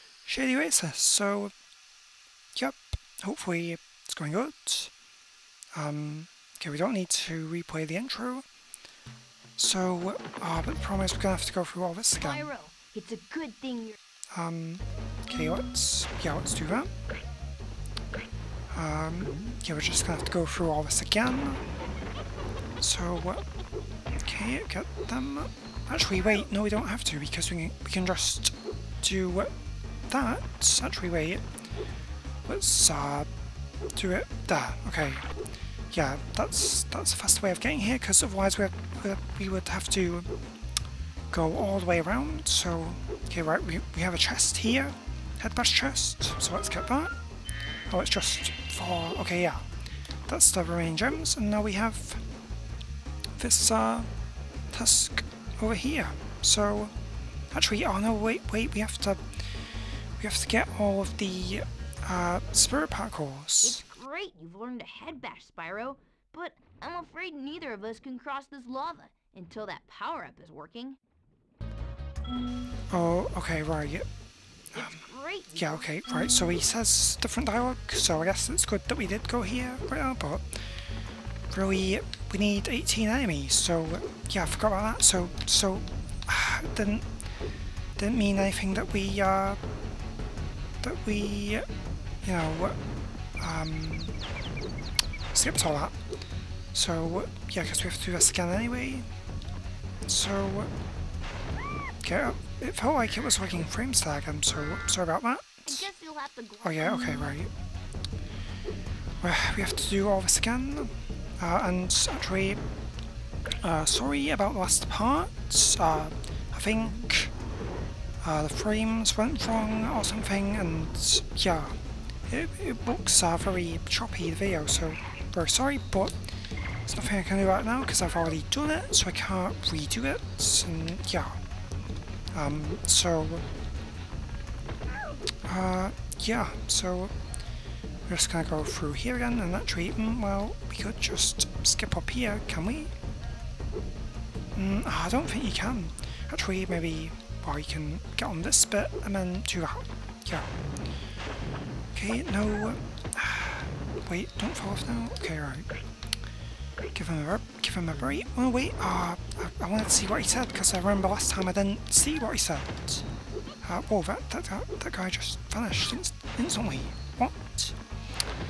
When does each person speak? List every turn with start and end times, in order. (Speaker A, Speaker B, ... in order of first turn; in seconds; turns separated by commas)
Speaker A: 0.3-1.5, Speaker A: 2.5-4.9, Speaker A: 5.7-8.4, Speaker A: 9.6-12.5, Speaker B: 12.2-14.0, Speaker A: 14.3-16.9, Speaker A: 18.7-21.6, Speaker A: 22.8-23.4, Speaker A: 24.2-29.5, Speaker A: 30.1-31.4, Speaker A: 32.5-33.3, Speaker A: 34.0-35.3, Speaker A: 35.9-40.3, Speaker A: 41.3-47.1, Speaker A: 47.9-49.7, Speaker A: 50.3-52.2, Speaker A: 53.4-54.1, Speaker A: 54.7-56.9, Speaker A: 57.5-59.3, Speaker A: 60.2-63.8, Speaker B: 63.6-71.0, Speaker A: 72.9-74.1, Speaker A: 74.7-75.0, Speaker B: 74.7-75.9, Speaker A: 75.5-80.6, Speaker A: 81.5-87.1, Speaker A: 88.0-89.6, Speaker A: 90.8-91.7, Speaker A: 92.2-92.8, Speaker A: 93.4-94.2, Speaker A: 95.3-96.0, Speaker A: 96.7-99.1, Speaker A: 100.1-100.7, Speaker A: 102.0-105.9, Speaker B: 105.7-107.2, Speaker A: 106.6-107.5, Speaker A: 109.2-112.6, Speaker A: 113.6-117.3, Speaker A: 118.2-121.8, Speaker A: 122.3-126.2, Speaker A: 126.9-131.4, Speaker A: 132.3-133.4, Speaker A: 135.5-137.1, Speaker A: 138.1-142.9, Speaker A: 144.6-150.5, Speaker A: 151.9-155.7, Speaker A: 156.9-163.1, Speaker A: 163.6-167.8